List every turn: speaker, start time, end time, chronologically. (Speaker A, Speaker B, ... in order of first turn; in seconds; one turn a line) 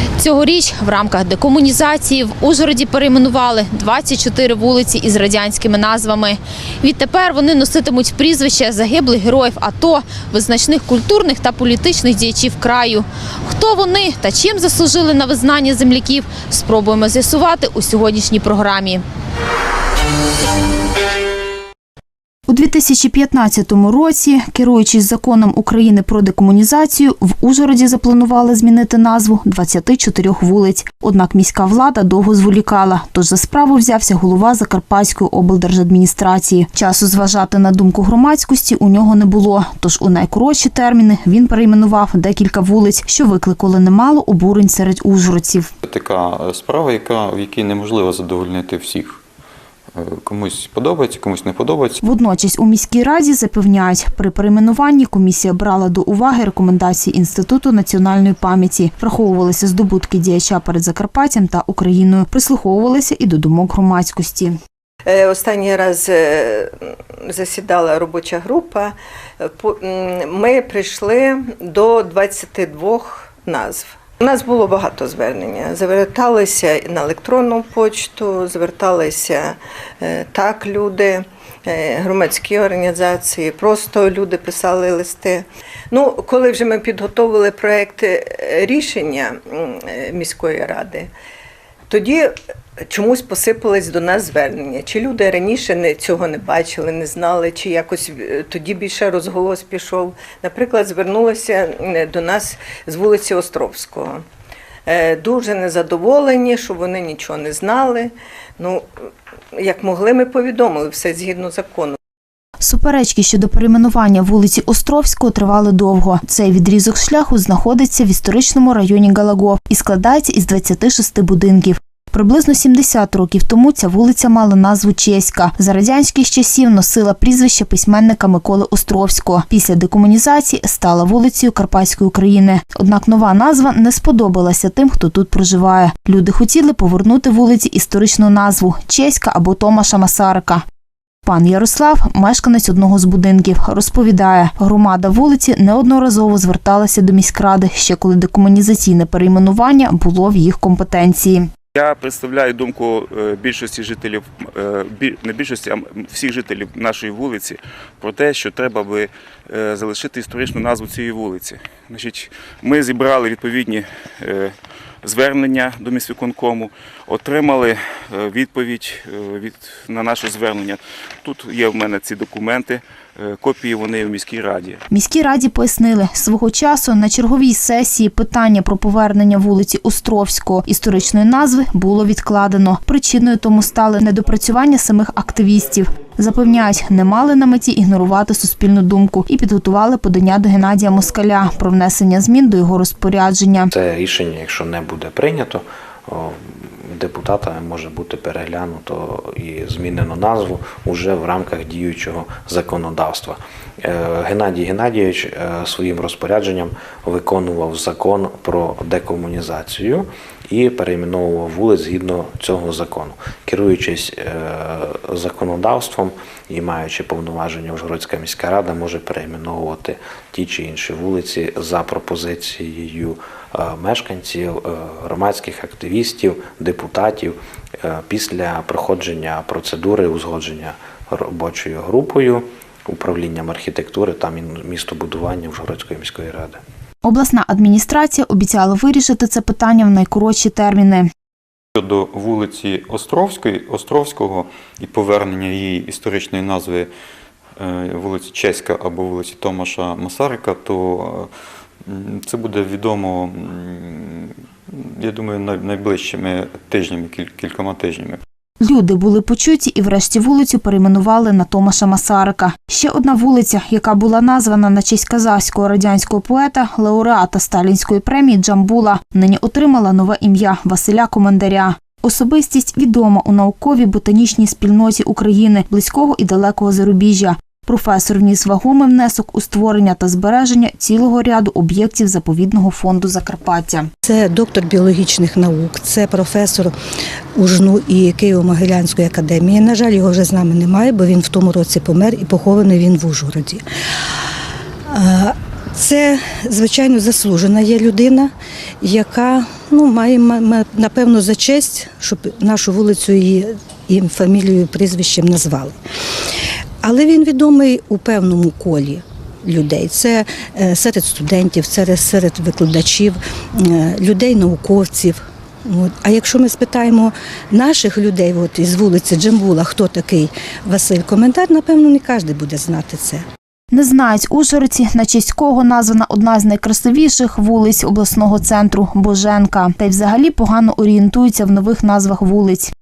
Speaker A: 0.2-19.0
Speaker A: 22.5-45.7
Speaker B: 45.8-49.2
Speaker B: 49.9-52.0
Speaker A: 52.0-64.6
Speaker C: 65.1-66.7
Speaker C: 67.3-68.9
Speaker C: 69.6-91.1
Speaker C: 91.9-92.3
Speaker C: 92.9-104.2
Speaker C: 104.9-108.8
Speaker C: 109.6-111.9
Speaker A: 112.6-140.6
Speaker A: 141.2-151.5
Speaker D: 151.7-174.8
Speaker A: 174.9-193.7
Speaker E: 193.7-236.6
Speaker A: 237.0-241.1
Speaker B: 241.8-246.9
Speaker B: 247.6-251.3
Speaker B: 251.8-258.2
Speaker A: 258.6-283.9
Speaker F: 284.0-286.7
Speaker F: 287.4-293.6
Speaker F: 294.9-298.3
Speaker F: 298.8-305.8
Speaker F: 306.8-323.2
Speaker A: 323.7-332.7